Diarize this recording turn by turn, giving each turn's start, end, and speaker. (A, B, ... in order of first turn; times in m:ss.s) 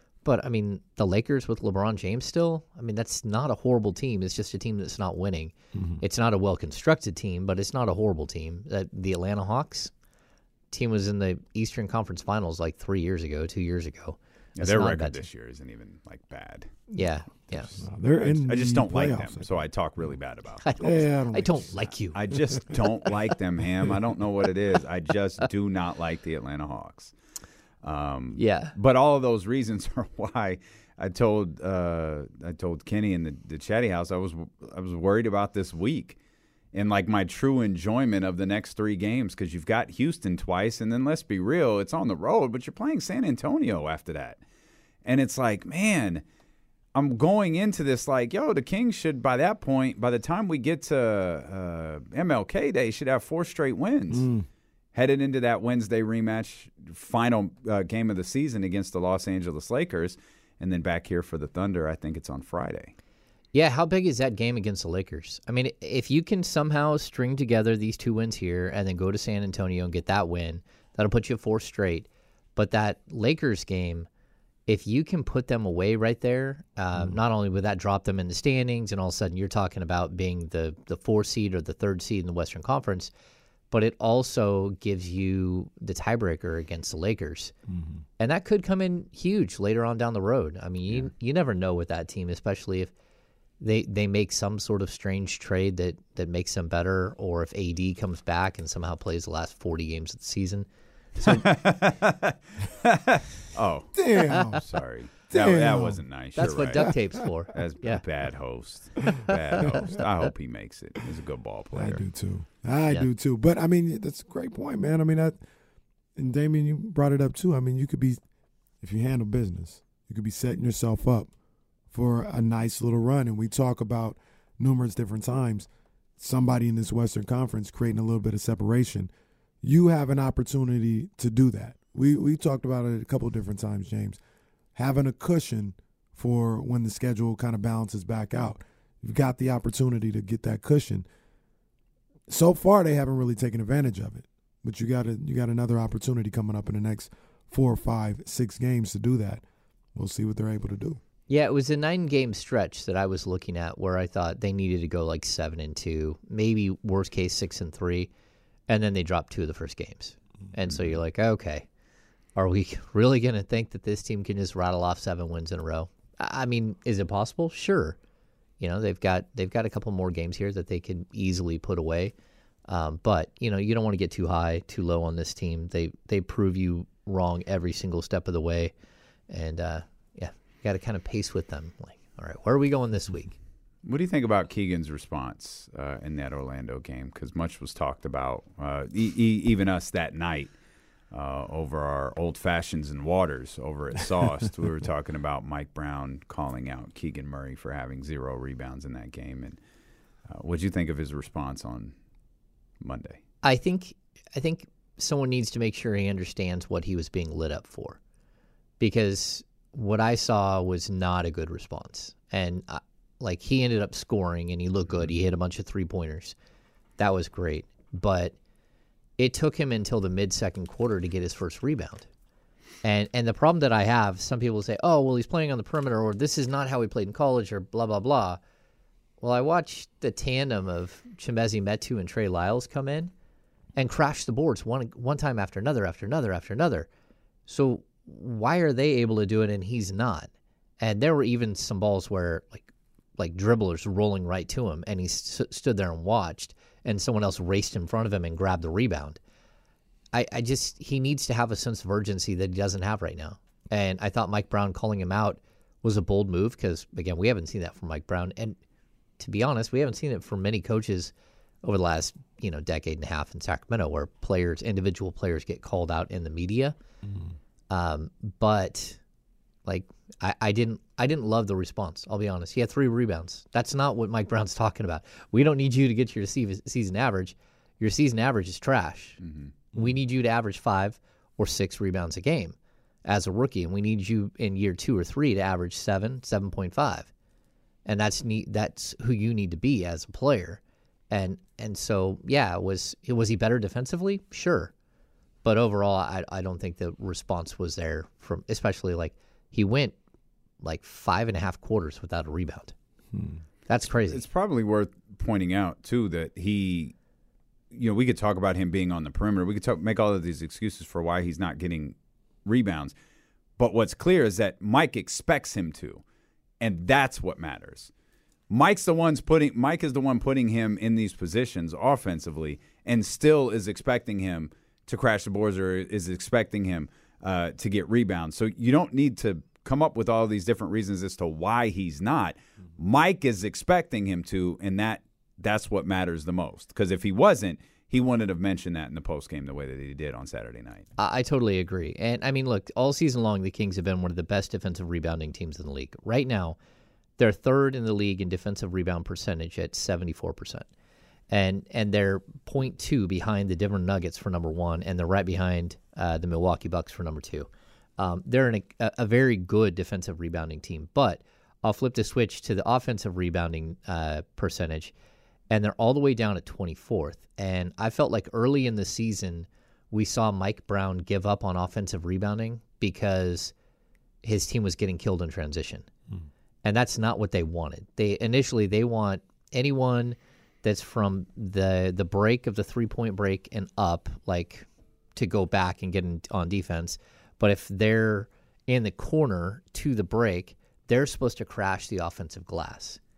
0:00.2-0:09.9 A
0:05.8-0:06.0 B
0:10.7-0:15.2 A
0:14.6-0:16.8 C
0:16.9-0:17.7 A
0:17.7-0:19.6 B
0:18.2-0:20.6 C
0:20.6-0:22.2 A
0:20.8-0:21.9 B
0:22.1-0:27.1 C
0:27.8-0:36.2 C
0:28.4-0:28.7 A
0:36.7-0:44.4 C
0:45.0-0:46.2 C
0:46.9-0:54.3 C
0:54.1-0:54.5 B
0:54.9-1:02.9 C
1:03.5-1:14.1 A
1:14.7-1:23.1 A
1:23.7-1:27.5 A
1:28.2-1:32.9 A
1:33.6-1:40.7 A
1:41.2-1:52.0 C
1:43.9-1:44.6 B
1:45.3-1:46.9 B
1:46.4-1:48.0 A
1:49.3-1:49.7 A
1:51.7-1:55.4 B
1:56.2-1:58.2 B
1:58.8-2:01.3 B
2:01.9-2:05.7 B
2:06.2-2:09.1 B
2:09.6-2:14.2 B
2:14.7-2:21.1 B
2:22.3-2:29.4 B
2:29.9-2:31.0 B
2:31.3-2:38.1 A
2:38.7-2:41.6 A
2:40.7-2:41.0 C
2:42.4-2:48.0 A
2:48.6-2:52.1 A
2:52.7-2:58.7 A
2:59.3-3:03.3 A
3:03.8-3:10.5 C
3:11.1-3:19.6 C
3:20.3-3:21.9 C
3:22.8-3:23.2 C
3:23.4-3:28.0 A
3:28.8-3:36.4 A
3:37.0-3:38.4 A
3:39.2-3:42.1 A
3:42.8-3:48.4 A
3:49.2-3:53.1 A
3:53.8-3:56.9 A
3:57.5-4:09.2 A
4:10.1-4:18.6 A
4:19.2-4:26.8 A
4:27.7-4:29.0 A
4:29.6-4:39.2 A
4:39.2-4:39.5 C
4:39.7-4:47.1 A
4:47.8-4:54.7 A
4:55.4-5:00.0 A
5:00.6-5:02.7 A
5:03.1-5:03.4 B
5:03.7-5:04.2 A
5:04.1-5:06.9 C
5:07.7-5:12.9 C
5:13.6-5:16.0 C
5:16.6-5:17.9 C
5:18.5-5:40.9 C
5:41.0-5:46.6 A
5:47.2-5:50.7 A
5:51.3-6:04.9 A
6:05.5-6:13.5 A
6:14.2-6:15.9 A
6:16.6-6:33.0 A